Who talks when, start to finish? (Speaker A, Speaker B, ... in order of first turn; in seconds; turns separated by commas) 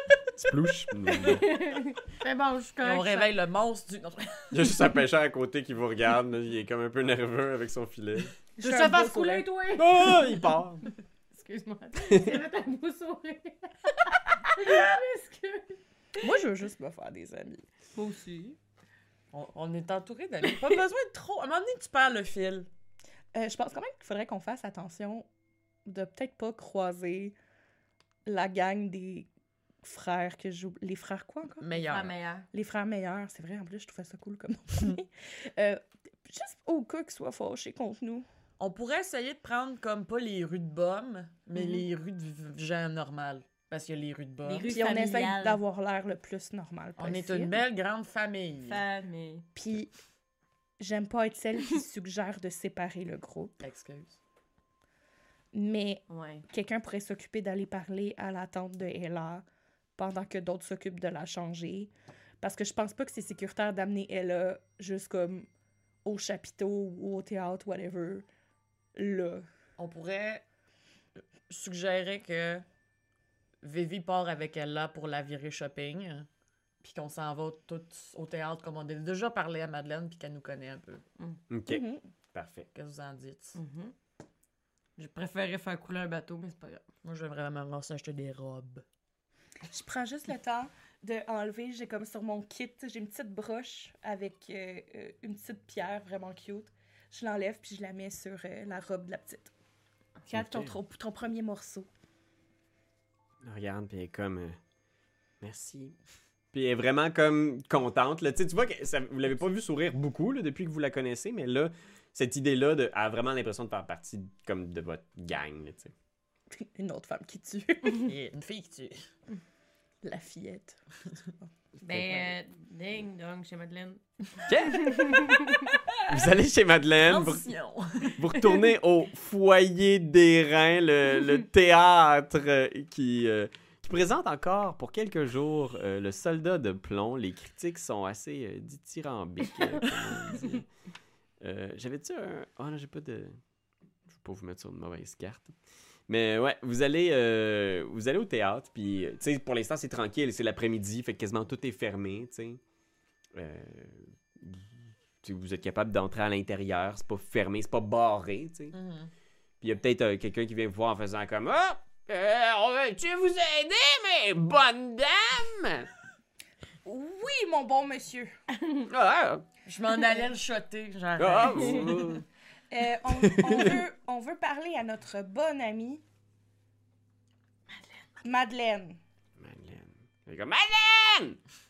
Speaker A: 0.3-1.5, Speaker B: 1.1-3.3, Speaker C: 2.8-4.8, Speaker A: 4.5-8.3, Speaker B: 8.6-10.5, Speaker D: 8.6-9.5, Speaker A: 9.8-10.9, Speaker B: 11.3-16.3, Speaker A: 12.0-12.3, Speaker D: 16.2-17.7, Speaker B: 17.9-18.6, Speaker C: 19.3-22.7, Speaker D: 23.3-25.3, Speaker D: 25.9-27.4, Speaker D: 28.2-29.3, Speaker D: 29.8-31.9, Speaker C: 31.6-32.1, Speaker B: 31.9-32.5, Speaker D: 32.5-38.3, Speaker C: 38.6-44.8, Speaker B: 44.5-45.6, Speaker D: 44.7-47.6, Speaker C: 47.0-48.8, Speaker B: 48.7-49.5, Speaker D: 49.6-49.9, Speaker D: 50.8-53.6, Speaker C: 53.6-54.2, Speaker D: 55.5-59.5, Speaker B: 56.1-56.4, Speaker D: 60.0-65.5, Speaker D: 66.0-68.3, Speaker D: 69.0-69.5, Speaker C: 69.8-70.4, Speaker C: 71.5-72.7, Speaker C: 73.6-76.3, Speaker C: 76.8-81.0, Speaker A: 81.5-81.8, Speaker D: 81.7-82.1, Speaker A: 82.3-82.7, Speaker C: 82.8-83.6, Speaker B: 83.6-83.9, Speaker B: 85.0-86.9, Speaker C: 87.0-88.8, Speaker D: 89.6-99.5, Speaker D: 100.3-101.9, Speaker A: 100.3-100.8, Speaker A: 103.4-104.6, Speaker A: 105.4-106.0, Speaker A: 106.5-115.9, Speaker D: 116.5-118.1, Speaker C: 118.0-119.0, Speaker D: 120.0-120.8, Speaker A: 121.8-122.3, Speaker B: 121.8-125.7, Speaker A: 124.5-125.0, Speaker A: 126.1-127.5, Speaker C: 127.0-128.7, Speaker A: 128.2-140.7, Speaker A: 141.4-143.4, Speaker A: 144.1-145.6, Speaker A: 146.1-152.6, Speaker A: 153.3-158.8, Speaker C: 158.7-159.1, Speaker A: 159.6-165.9, Speaker D: 166.8-168.3, Speaker A: 168.9-169.4, Speaker C: 169.7-171.9, Speaker A: 171.2-172.2, Speaker D: 172.7-176.0, Speaker A: 173.2-173.7, Speaker D: 178.2-179.0, Speaker A: 179.4-181.4